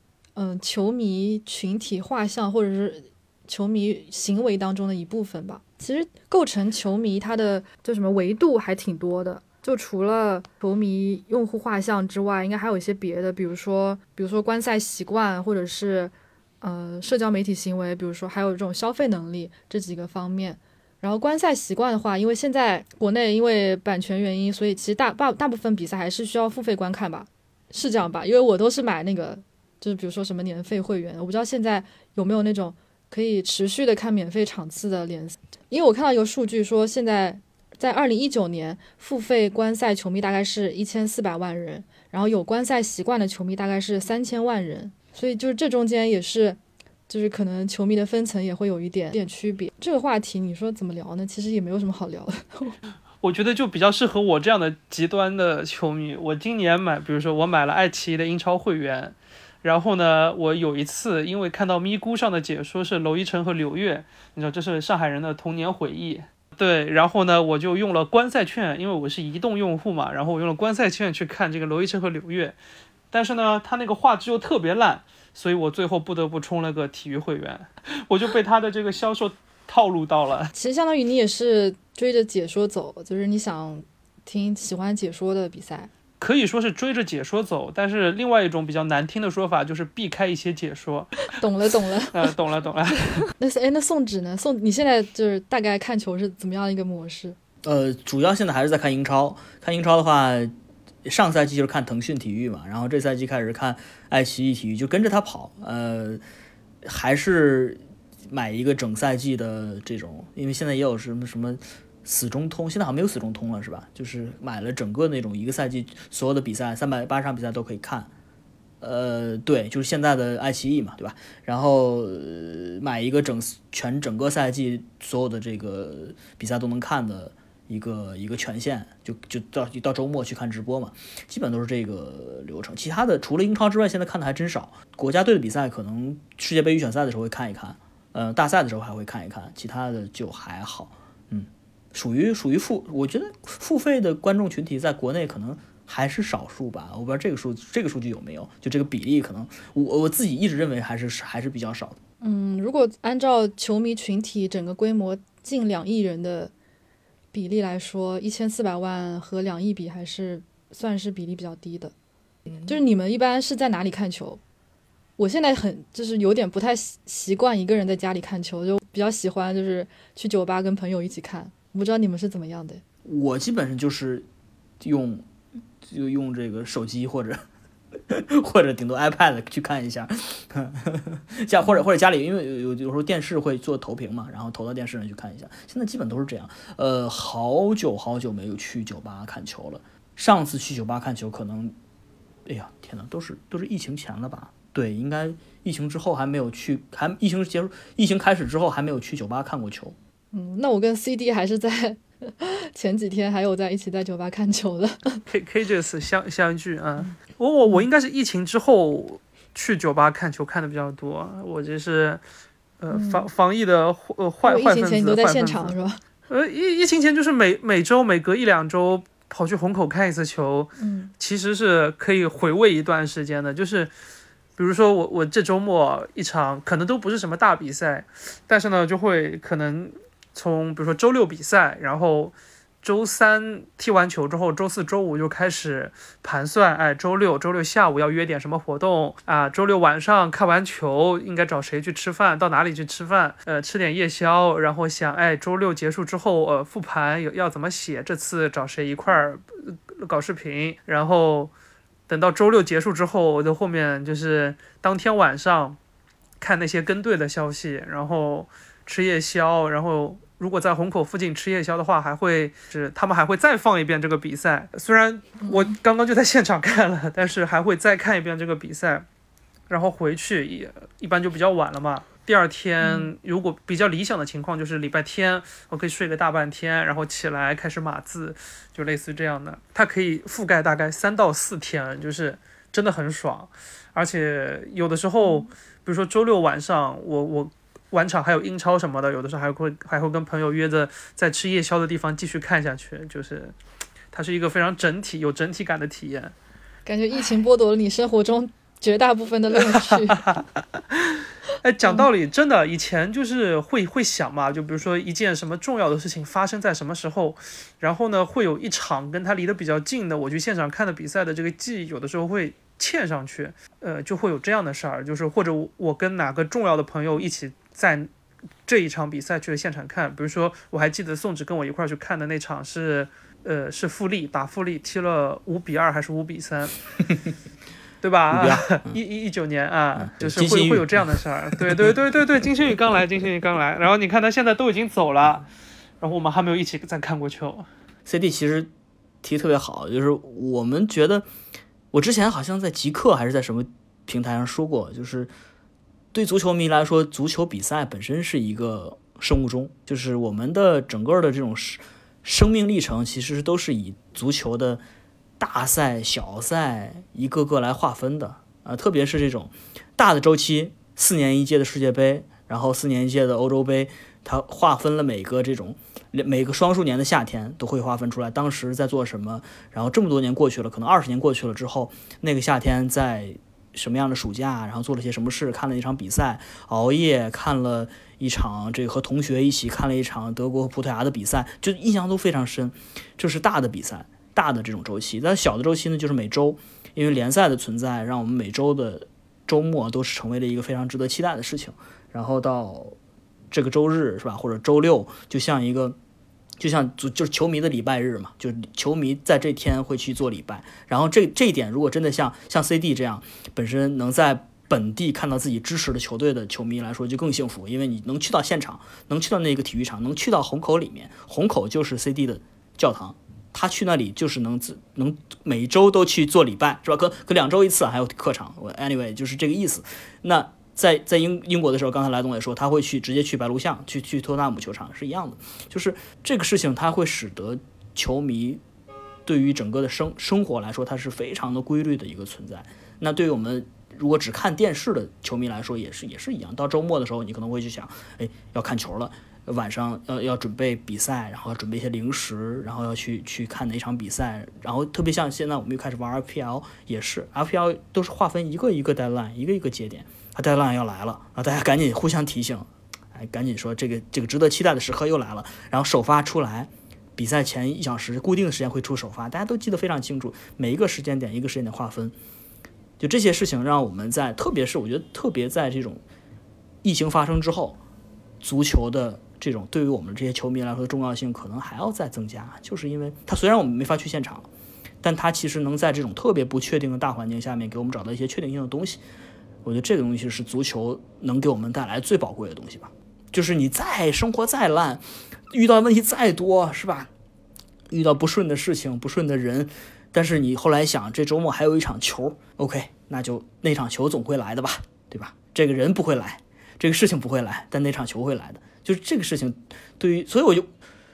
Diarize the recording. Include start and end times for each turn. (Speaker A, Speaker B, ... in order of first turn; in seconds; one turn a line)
Speaker A: 0.4-52.8
Speaker B: 53.2-72.6
Speaker B: 73.1-80.5
Speaker A: 80.5-85.9
Speaker B: 86.2-91.3
Speaker A: 91.3-92.2
Speaker B: 92.1-93.3
Speaker A: 93.4-97.4
Speaker C: 97.6-100.5
Speaker C: 101.0-106.2
Speaker C: 106.8-118.1
Speaker C: 118.8-152.0
Speaker A: 152.2-156.5
Speaker A: 157.3-161.9
Speaker A: 162.7-164.4
Speaker A: 165.2-172.8
Speaker C: 173.1-174.3
Speaker C: 174.8-175.2
Speaker C: 175.8-177.4
Speaker C: 178.1-191.7
Speaker C: 192.5-199.9
Speaker A: 200.3-205.2
Speaker B: 205.3-212.2
Speaker B: 212.8-215.8
Speaker A: 212.9-213.3
Speaker A: 214.4-216.0
Speaker B: 216.3-223.9
Speaker A: 220.8-221.1
Speaker B: 224.6-251.5
Speaker B: 252.1-255.8
Speaker B: 256.4-269.1
Speaker A: 265.4-265.7
Speaker B: 269.7-293.6
Speaker A: 272.8-273.1
Speaker B: 294.1-296.3
Speaker A: 296.9-300.3
Speaker B: 299.6-318.1
Speaker B: 318.7-326.8
Speaker B: 328.0-335.5
Speaker C: 328.3-329.0
Speaker C: 329.9-331.9
Speaker B: 336.0-337.7
Speaker C: 338.1-338.7
Speaker C: 339.2-341.3
Speaker C: 341.9-345.3
Speaker C: 346.1-354.8
Speaker C: 355.4-392.9
Speaker C: 393.5-396.0
Speaker C: 396.6-428.6
Speaker C: 429.3-462.1
Speaker C: 463.0-466.0
Speaker C: 466.8-467.8
Speaker C: 468.4-474.5
Speaker C: 475.0-479.0
Speaker C: 479.6-487.1
Speaker C: 487.9-500.7